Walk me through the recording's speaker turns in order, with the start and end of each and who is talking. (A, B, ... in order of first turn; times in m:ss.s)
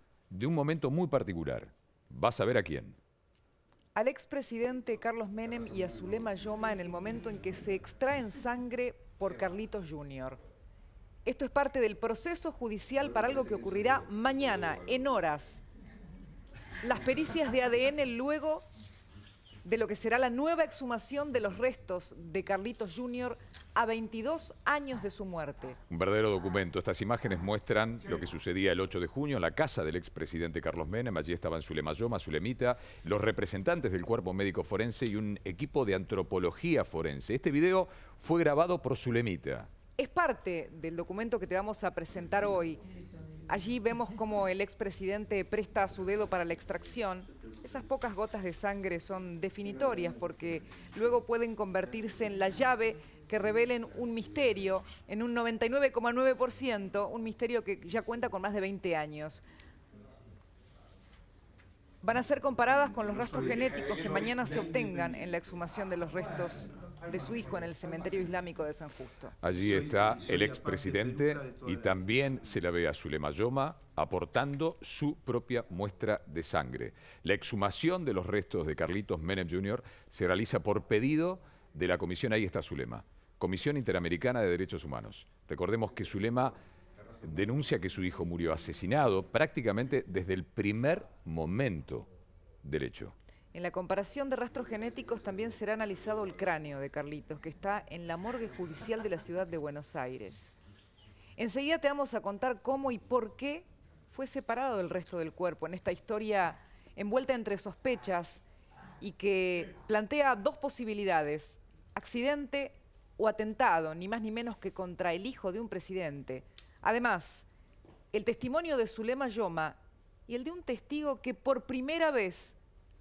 0:00.3-0:03.0 A
0:03.9-0:10.4 B
0:11.2-0:15.6 B
0:16.8-0:18.6 B
0:19.6-0:25.8 B
0:25.9-0:39.7 A
0:40.0-0:42.8 B
0:43.5-0:59.4 B
1:02.0-1:09.3 B
1:09.4-1:26.5 A
1:27.2-1:32.1 A
1:32.6-1:33.1 A
1:33.5-1:40.5 B
1:41.4-1:48.4 B
1:49.0-1:57.5 B
1:58.1-2:02.6 B